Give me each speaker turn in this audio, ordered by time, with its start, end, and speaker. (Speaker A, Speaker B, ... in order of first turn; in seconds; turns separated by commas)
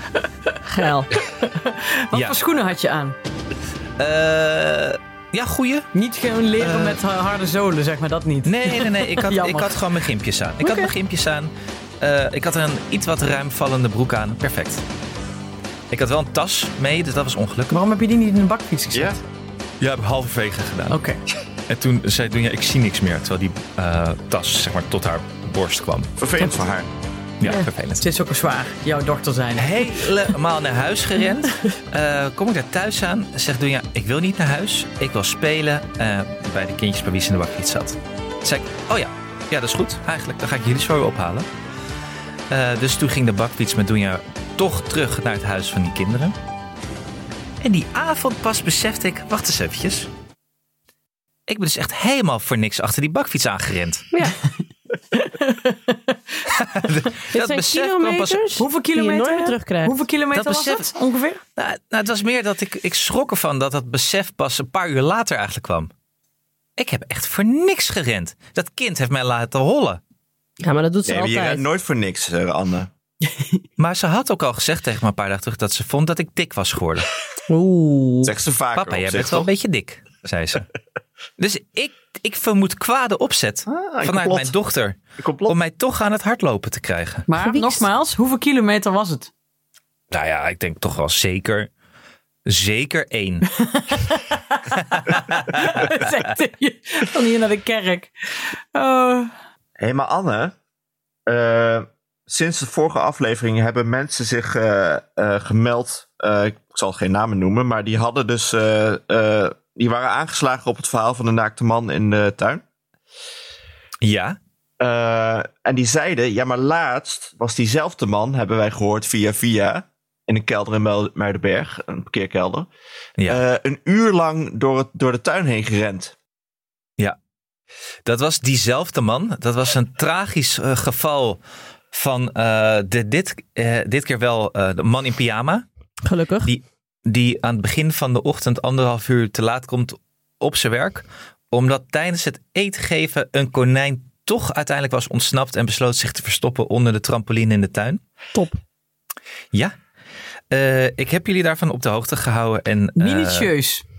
Speaker A: 0.7-1.1, Speaker B: 1.3-3.1, Speaker C: 4.0-5.9, Speaker B: 5.9-9.8, Speaker C: 6.6-7.0, Speaker C: 8.4-14.8, Speaker B: 10.6-10.9, Speaker C: 15.9-17.8, Speaker B: 17.7-19.2, Speaker D: 18.9-19.2, Speaker C: 19.8-21.0, Speaker B: 20.9-21.2, Speaker C: 21.7-26.1, Speaker D: 26.2-26.9, Speaker C: 27.4-28.0, Speaker B: 27.4-30.0, Speaker C: 29.6-41.5, Speaker C: 42.5-46.4, Speaker C: 47.6-50.1, Speaker C: 51.5-54.1, Speaker B: 55.1-56.4, Speaker C: 56.5-58.5, Speaker A: 57.3-60.0, Speaker B: 58.6-61.4, Speaker C: 60.3-60.9, Speaker C: 61.6-65.9, Speaker C: 66.8-70.0, Speaker A: 70.6-71.6, Speaker D: 71.1-72.9, Speaker C: 73.8-77.1, Speaker A: 77.5-78.3, Speaker D: 78.2-79.5, Speaker C: 78.8-80.7, Speaker C: 81.4-87.3, Speaker D: 83.7-84.5, Speaker D: 85.2-85.5, Speaker B: 87.3-89.3, Speaker A: 87.4-87.8, Speaker C: 90.1-91.7, Speaker C: 92.5-93.5, Speaker B: 93.6-99.3, Speaker C: 94.9-95.7, Speaker D: 99.8-100.5, Speaker D: 101.3-112.6, Speaker C: 114.0-114.4, Speaker D: 114.8-122.7, Speaker D: 123.3-126.2, Speaker C: 128.1-131.4, Speaker C: 131.9-135.7, Speaker A: 136.1-136.5, Speaker C: 136.4-148.0, Speaker C: 150.5-153.5, Speaker B: 153.0-153.8